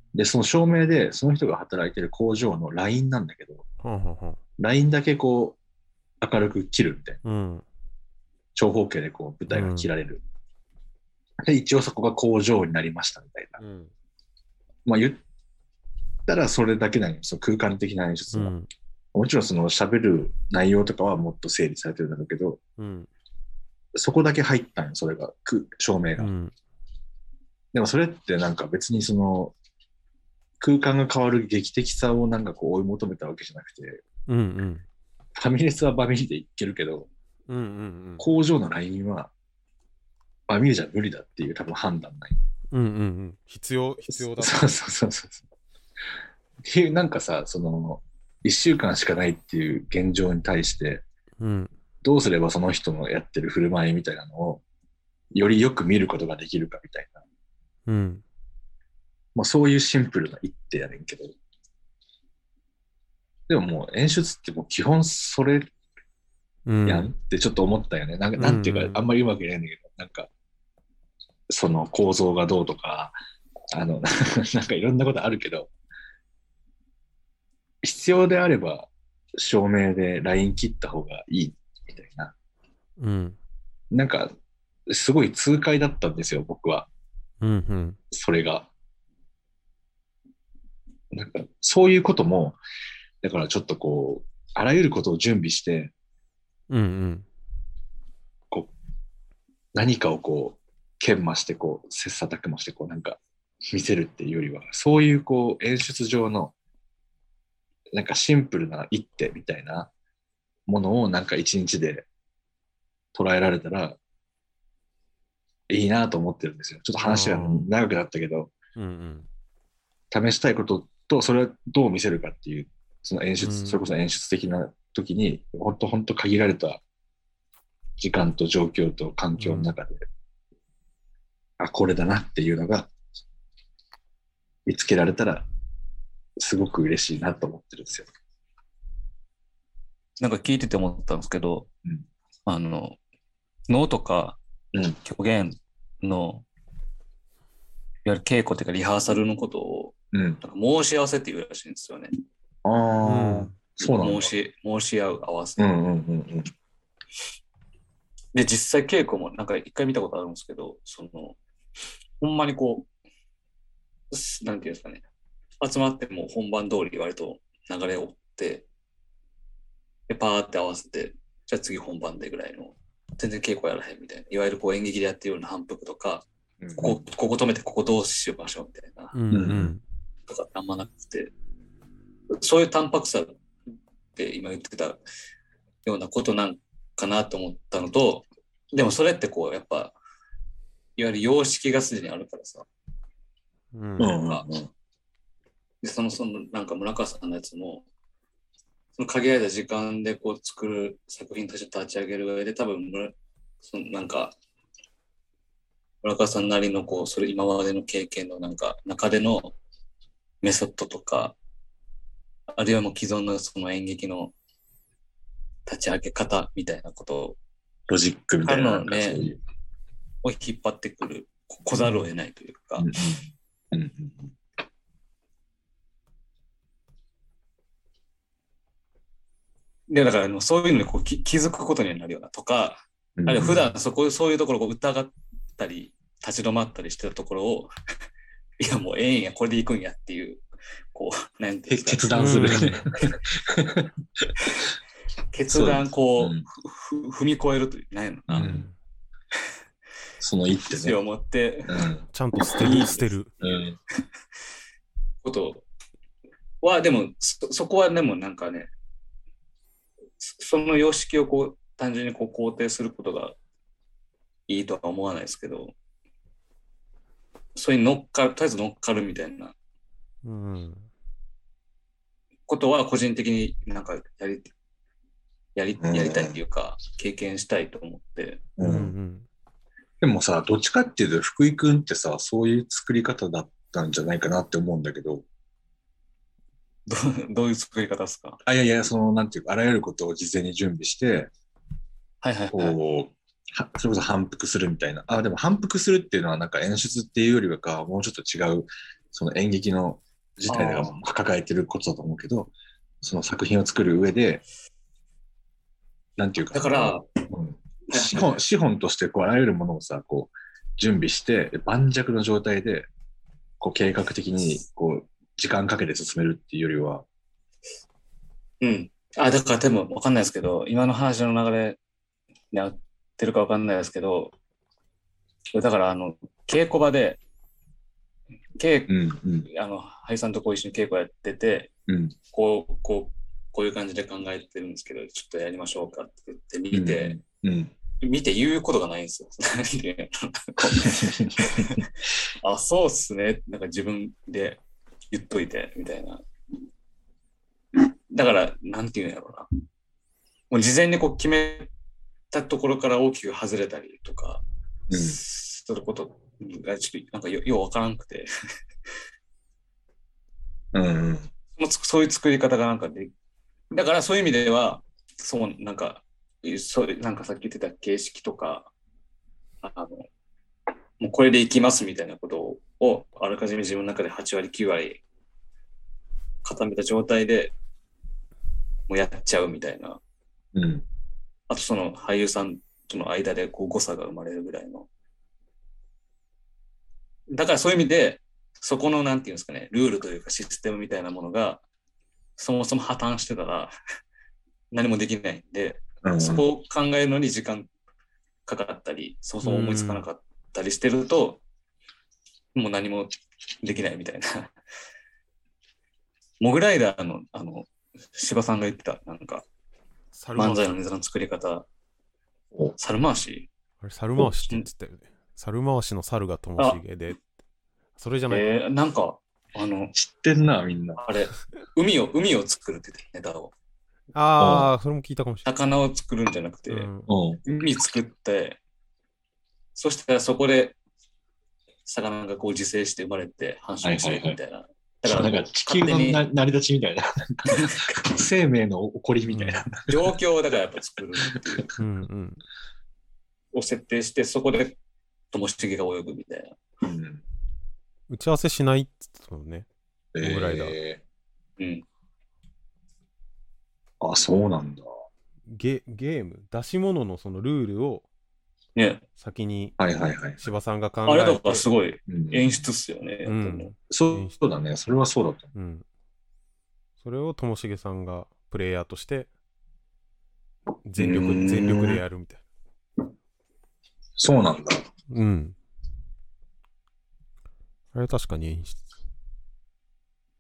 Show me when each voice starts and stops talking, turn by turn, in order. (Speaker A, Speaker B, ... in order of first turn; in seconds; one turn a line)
Speaker A: 0.1-3.6
Speaker B: 3.8-4.4
Speaker A: 4.6-5.6
Speaker A: 6.2-7.2
Speaker B: 7.2-7.7
Speaker A: 8.6-10.2
Speaker B: 9.5-9.9
Speaker A: 11.4-13.6
Speaker B: 13.6-13.9
Speaker A: 14.8-15.2
Speaker A: 16.3-18.5
Speaker B: 18.3-18.7
Speaker A: 19.1-22.6
Speaker B: 22.8-23.1
Speaker A: 24.0-26.3
Speaker B: 26.2-26.5
Speaker A: 27.7-29.6
Speaker A: 30.6-34.0
Speaker B: 34.3-34.9
Speaker A: 35.4-37.1
Speaker B: 37.5-38.2
Speaker A: 38.2-39.3
Speaker A: 40.5-42.4
Speaker B: 42.7-44.8
Speaker A: 44.1-45.5
Speaker A: 46.6-51.0
Speaker B: 51.4-51.7
Speaker A: 52.0-54.6
Speaker A: 55.3-57.2
Speaker B: 57.9-58.2
Speaker A: 59.4-61.4
Speaker A: 63.5-65.7
Speaker B: 66.7-67.1
Speaker A: 66.9-70.3
Speaker B: 68.4-69.1
Speaker A: 71.5-73.2
Speaker A: 73.7-75.7
Speaker A: 77.8-82.3
Speaker B: 83.0-83.4
Speaker A: 83.9-84.3
Speaker A: 84.9-86.9
Speaker B: 87.4-88.0
Speaker A: 88.1-88.7
Speaker A: 91.1-92.6
Speaker A: 93.2-95.9
Speaker B: 96.7-97.3
Speaker A: 99.7-106.5
Speaker A: 107.9-109.9
Speaker A: 110.7-112.1
Speaker A: 113.1-114.0
Speaker A: 115.7-118.5
Speaker B: 117.0-117.7
Speaker B: 118.8-119.3
Speaker A: 120.1-126.8
Speaker B: 123.4-123.8
Speaker A: 128.0-130.1
Speaker B: 129.4-129.7
Speaker A: 131.6-132.9
Speaker A: 134.7-135.5
Speaker A: 136.4-138.1
Speaker C: 140.2-141.7
Speaker C: 142.5-143.0
Speaker C: 143.7-144.4
Speaker C: 145.0-146.4
Speaker C: 148.1-152.1
Speaker A: 150.1-150.4
Speaker A: 152.7-154.3
Speaker B: 153.0-153.5
Speaker C: 153.8-155.7
Speaker A: 155.6-156.5
Speaker C: 158.3-161.4
Speaker C: 162.2-162.9
Speaker C: 164.1-165.0
Speaker C: 165.6-168.7
Speaker C: 170.1-179.2
Speaker A: 176.6-177.0
Speaker B: 179.1-179.8
Speaker A: 179.3-179.8
Speaker C: 180.3-181.3
Speaker C: 182.3-183.4
Speaker C: 184.2-185.0
Speaker C: 185.8-189.9
Speaker C: 191.0-192.7
Speaker B: 193.7-194.2
Speaker A: 194.0-194.7
Speaker C: 194.2-194.4
Speaker C: 195.8-197.9
Speaker C: 199.0-204.4
Speaker C: 206.0-209.6
Speaker C: 210.4-211.4
Speaker C: 212.6-214.3
Speaker C: 215.7-217.4
Speaker A: 217.9-219.4
Speaker C: 218.4-219.3
Speaker C: 220.2-222.9
Speaker A: 222.8-224.3
Speaker C: 229.9-237.7
Speaker A: 233.2-233.7
Speaker C: 238.6-240.4
Speaker C: 240.9-242.7
Speaker A: 241.7-244.5
Speaker B: 242.1-242.7
Speaker C: 245.3-248.4
Speaker A: 245.5-246.4
Speaker A: 248.3-248.7
Speaker B: 248.4-248.7
Speaker A: 250.2-251.0
Speaker C: 250.6-251.9
Speaker A: 251.7-252.1
Speaker B: 252.1-253.3
Speaker C: 252.4-253.1
Speaker A: 253.4-253.8
Speaker C: 255.2-255.7
Speaker C: 256.6-258.7
Speaker C: 260.2-263.4
Speaker C: 264.5-265.7
Speaker C: 267.6-269.6
Speaker B: 270.2-270.9
Speaker C: 272.5-274.5
Speaker C: 275.6-278.5
Speaker A: 275.8-276.4
Speaker A: 278.6-278.9
Speaker B: 278.6-279.3
Speaker A: 280.0-285.2
Speaker C: 286.9-288.4
Speaker A: 288.4-291.3
Speaker C: 292.2-292.8
Speaker A: 292.5-304.4
Speaker C: 300.5-300.9
Speaker A: 306.2-312.9
Speaker C: 306.5-307.1
Speaker C: 307.9-308.4
Speaker A: 313.6-317.1
Speaker C: 318.6-321.8
Speaker C: 322.5-324.3
Speaker C: 325.5-327.2
Speaker C: 328.6-331.7
Speaker A: 328.9-329.5
Speaker A: 331.9-332.1
Speaker C: 332.3-337.2
Speaker A: 336.7-337.7
Speaker C: 338.0-341.9
Speaker A: 340.6-341.8
Speaker C: 342.4-346.2
Speaker C: 347.8-349.5
Speaker C: 350.5-351.7
Speaker C: 352.3-358.3
Speaker A: 354.9-355.2
Speaker A: 360.7-361.3
Speaker C: 361.6-363.1
Speaker C: 363.7-368.7
Speaker C: 369.6-370.1
Speaker C: 371.0-375.0
Speaker C: 376.4-377.5
Speaker C: 378.9-380.0
Speaker A: 380.6-380.9
Speaker C: 381.5-384.9
Speaker C: 387.3-391.6
Speaker C: 392.4-393.7
Speaker C: 394.7-397.7
Speaker A: 396.0-396.5
Speaker C: 398.5-401.4
Speaker B: 399.4-400.1
Speaker C: 402.6-403.1
Speaker C: 403.6-404.5
Speaker C: 406.4-409.4
Speaker B: 410.1-410.7
Speaker C: 410.4-411.7
Speaker C: 412.8-413.5
Speaker B: 413.8-417.2
Speaker B: 418.0-418.4
Speaker C: 418.3-419.9
Speaker A: 419.9-421.0
Speaker C: 421.0-423.5
Speaker B: 424.1-425.5
Speaker A: 424.4-424.7
Speaker C: 425.4-426.9
Speaker B: 426.7-427.1
Speaker A: 427.1-427.4
Speaker C: 427.5-428.6
Speaker C: 429.8-430.8
Speaker C: 431.9-436.2
Speaker A: 433.8-434.4
Speaker A: 435.0-440.2
Speaker C: 437.5-437.9
Speaker B: 439.3-439.6
Speaker C: 439.9-441.6
Speaker A: 441.3-441.7
Speaker B: 441.8-442.4
Speaker C: 443.5-444.8
Speaker C: 445.3-446.6
Speaker A: 446.8-447.2
Speaker B: 448.1-449.7
Speaker A: 450.1-451.0
Speaker B: 450.2-450.8
Speaker C: 451.6-451.9
Speaker A: 454.0-454.9
Speaker B: 455.5-458.1
Speaker C: 458.8-459.0
Speaker B: 459.2-459.8
Speaker A: 459.8-460.5
Speaker B: 460.4-461.7
Speaker C: 461.1-463.7
Speaker A: 462.1-462.6
Speaker B: 463.3-464.4
Speaker A: 463.9-465.5
Speaker B: 465.6-465.8
Speaker B: 467.0-469.3
Speaker B: 470.9-472.4
Speaker A: 471.0-472.0
Speaker A: 474.2-474.8
Speaker B: 475.1-475.6
Speaker B: 477.9-478.8